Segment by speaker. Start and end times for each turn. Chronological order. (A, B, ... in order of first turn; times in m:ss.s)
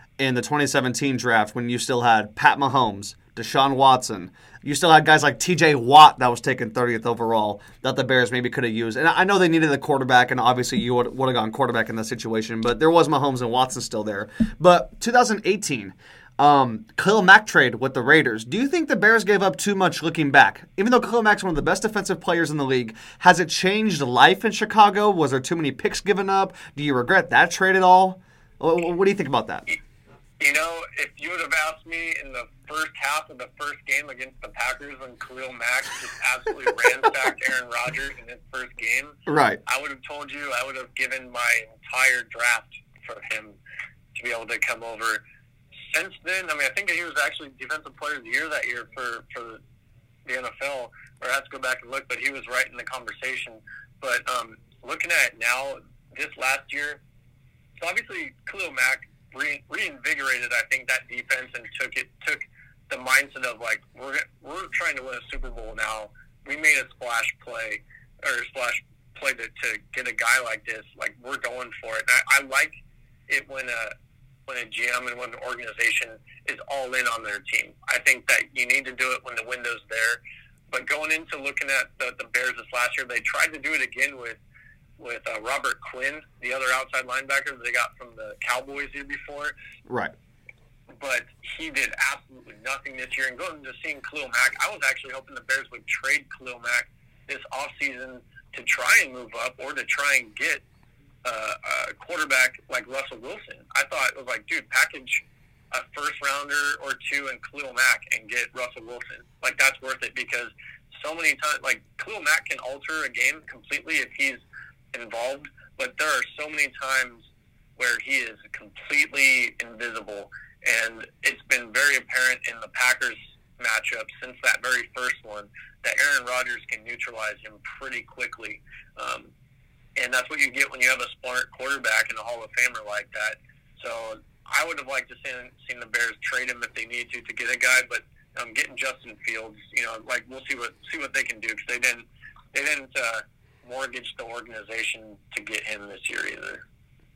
0:00.2-0:29.6 A
0:30.4-0:43.6 B
0:39.3-0:39.6 A
0:44.1-0:45.2 B
0:45.9-0:49.6 B
0:50.2-0:57.0 B
0:57.8-1:13.9 B
1:14.5-1:20.2 B
1:20.7-1:24.4 B
1:25.0-1:29.5 B
1:29.9-1:30.1 A
1:31.0-1:40.6 B
1:41.2-1:54.4 B
1:54.9-2:09.3 B
2:10.0-2:26.6 B